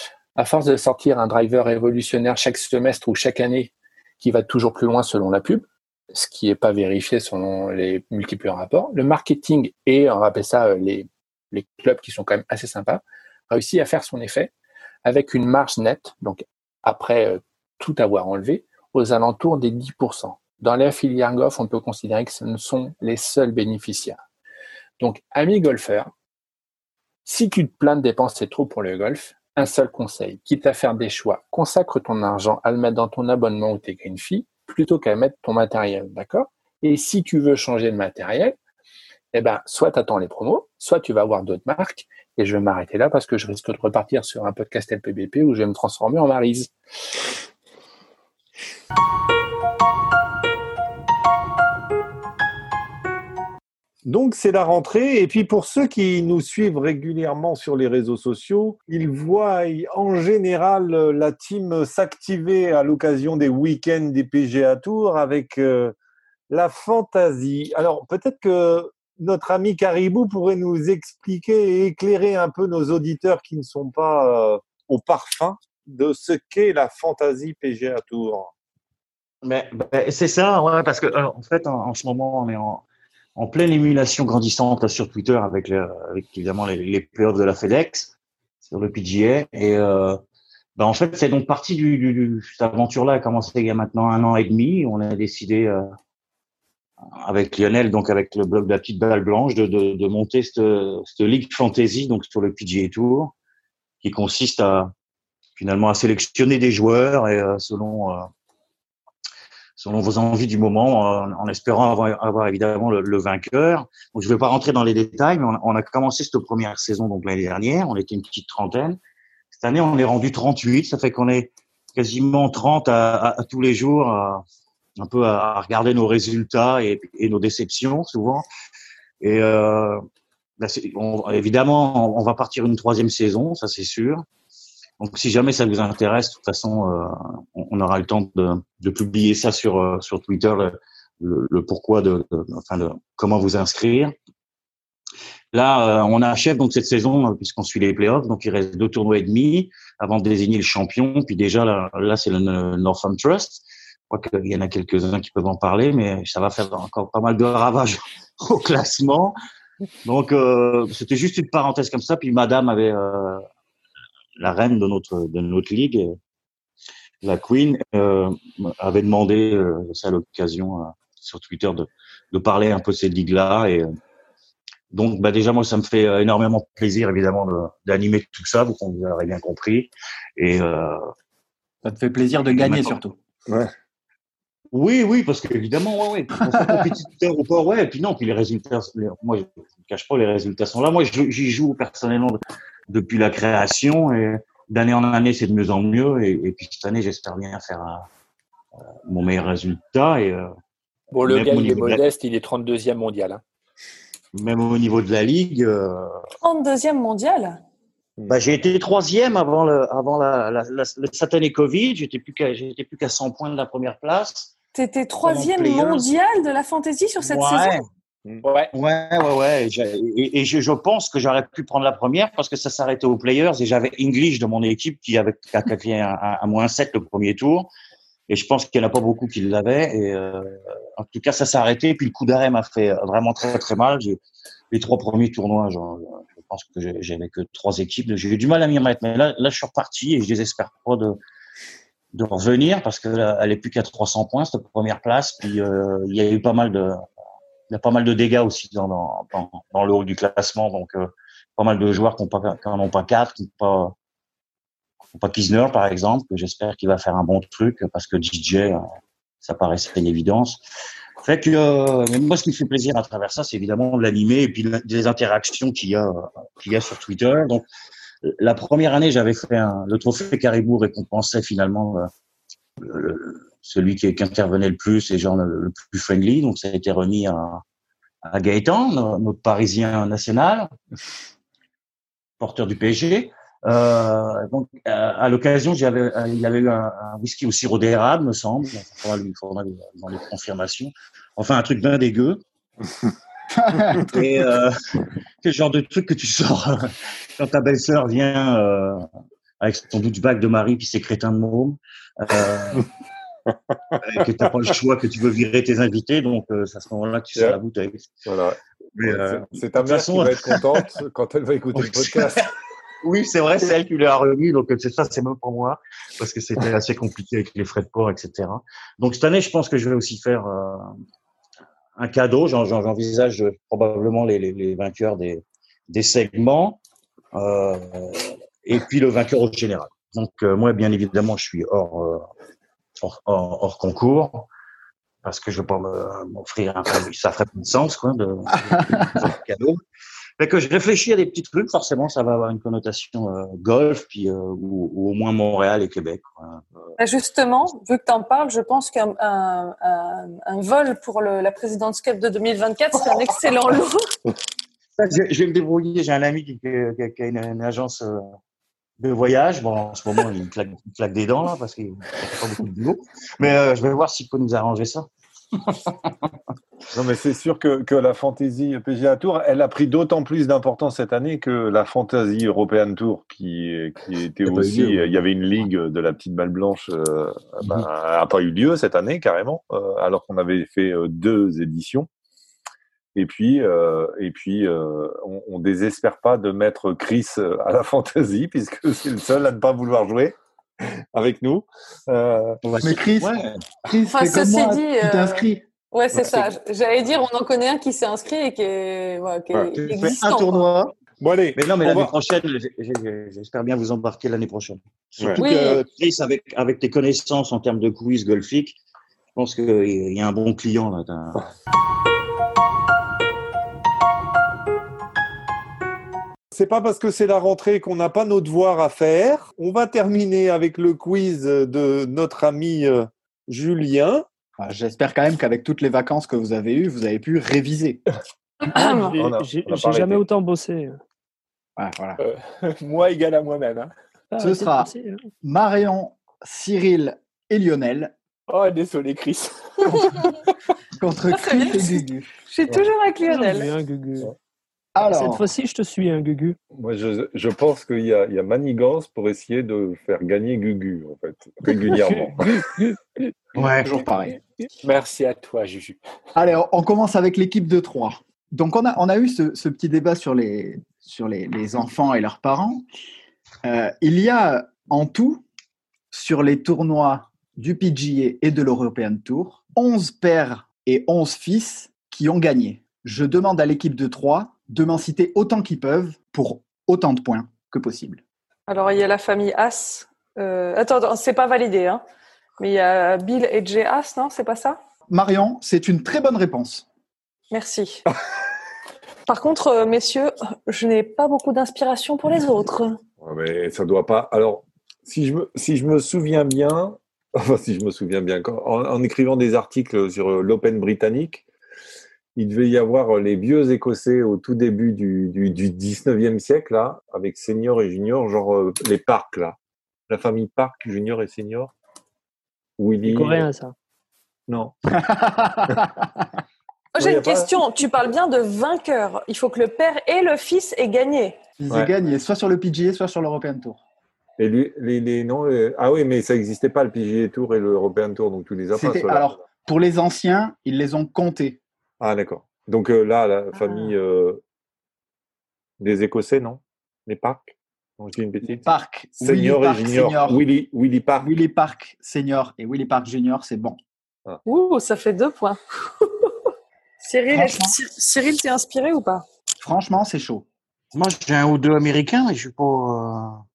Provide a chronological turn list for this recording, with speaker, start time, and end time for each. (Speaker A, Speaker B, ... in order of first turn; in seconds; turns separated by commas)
Speaker A: 0.4-14.5, Speaker A: 15.1-24.2, Speaker A: 25.0-26.1, Speaker A: 27.2-38.6, Speaker A: 39.3-46.7, Speaker B: 54.0-65.9, Speaker B: 66.5-78.5, Speaker C: 79.4-82.8, Speaker C: 83.4-88.1, Speaker C: 88.7-90.2, Speaker C: 90.8-95.8, Speaker C: 97.2-103.3, Speaker C: 104.0-104.9, Speaker C: 105.6-108.3, Speaker C: 109.8-119.0, Speaker C: 119.5-124.4, Speaker C: 125.0-128.4, Speaker C: 129.2-130.0, Speaker C: 130.6-134.3, Speaker C: 135.0-144.1, Speaker C: 145.5-159.4, Speaker C: 160.1-163.4, Speaker C: 164.4-166.2, Speaker C: 167.2-173.9, Speaker C: 174.9-181.0, Speaker D: 181.8-183.2, Speaker C: 182.6-182.9, Speaker B: 183.5-183.7, Speaker C: 184.7-198.1, Speaker C: 199.1-200.5, Speaker A: 201.1-203.4, Speaker C: 201.2-202.0, Speaker C: 204.3-206.1, Speaker E: 206.4-207.6, Speaker B: 208.2-208.4, Speaker C: 208.3-214.5, Speaker E: 214.8-217.8, Speaker C: 215.2-216.1, Speaker C: 217.2-217.8, Speaker A: 218.4-218.7, Speaker C: 218.7-227.7, Speaker C: 228.3-234.2, Speaker C: 234.7-241.2, Speaker C: 242.1-247.0, Speaker C: 247.7-253.9, Speaker C: 255.2-258.8, Speaker C: 259.4-260.6, Speaker C: 261.2-267.7, Speaker C: 268.2-272.1, Speaker C: 272.8-277.6, Speaker C: 278.3-280.7, Speaker C: 282.4-292.4, Speaker D: 293.5-294.2, Speaker C: 294.1-294.8, Speaker C: 295.4-299.1, Speaker C: 299.6-302.9, Speaker B: 303.9-304.7, Speaker C: 304.0-308.1, Speaker B: 307.4-307.6, Speaker B: 308.3-312.5, Speaker C: 309.0-310.8, Speaker C: 311.7-312.5, Speaker C: 313.0-320.9, Speaker C: 322.0-326.8, Speaker C: 327.3-332.3, Speaker C: 333.0-334.5, Speaker C: 335.2-339.8, Speaker C: 340.4-346.6, Speaker E: 347.0-354.1, Speaker C: 355.0-358.4, Speaker C: 359.0-366.3, Speaker B: 366.9-382.1, Speaker C: 374.4-375.1, Speaker B: 383.1-390.4, Speaker B: 391.1-392.6, Speaker C: 392.6-393.6, Speaker D: 392.8-395.6, Speaker E: 394.1-400.7, Speaker B: 396.1-396.5, Speaker C: 399.7-400.9, Speaker B: 401.2-402.1, Speaker C: 401.6-408.8, Speaker B: 405.2-405.9, Speaker E: 405.4-405.8, Speaker C: 409.4-411.5, Speaker B: 416.5-424.2, Speaker D: 424.6-428.0, Speaker E: 428.6-429.1, Speaker F: 428.7-431.0, Speaker B: 429.1-430.2, Speaker D: 431.8-432.2, Speaker A: 432.2-433.9, Speaker F: 434.3-435.3, Speaker D: 434.4-434.9, Speaker D: 435.4-438.1, Speaker A: 438.5-440.3, Speaker D: 440.9-442.3, Speaker E: 441.3-443.7, Speaker F: 443.3-444.3, Speaker D: 444.9-445.5, Speaker F: 445.0-446.6, Speaker B: 446.8-452.5, Speaker F: 452.0-453.3, Speaker C: 453.6-453.9, Speaker D: 453.6-454.4, Speaker A: 454.8-456.0, Speaker D: 456.4-462.8, Speaker D: 463.6-465.4, Speaker D: 466.1-478.2, Speaker E: 478.7-482.0, Speaker E: 482.6-484.8, Speaker D: 485.1-486.9, Speaker E: 487.5-488.1, Speaker E: 489.3-493.0, Speaker B: 493.2-501.4, Speaker B: 502.4-509.6, Speaker B: 510.1-511.7, Speaker B: 512.8-513.5, Speaker F: 513.0-513.8, Speaker B: 514.5-514.7, Speaker D: 515.0-516.1, Speaker E: 517.0-521.4, Speaker B: 517.0-517.6, Speaker D: 521.6-523.8, Speaker B: 524.4-529.4, Speaker D: 528.7-531.6, Speaker B: 532.0-534.4, Speaker D: 533.5-533.9, Speaker B: 535.8-538.7, Speaker D: 538.4-540.5, Speaker B: 539.2-541.3, Speaker D: 541.2-543.8, Speaker E: 544.5-546.3, Speaker E: 547.0-549.3, Speaker D: 547.3-547.8, Speaker D: 549.6-550.5, Speaker C: 550.9-553.4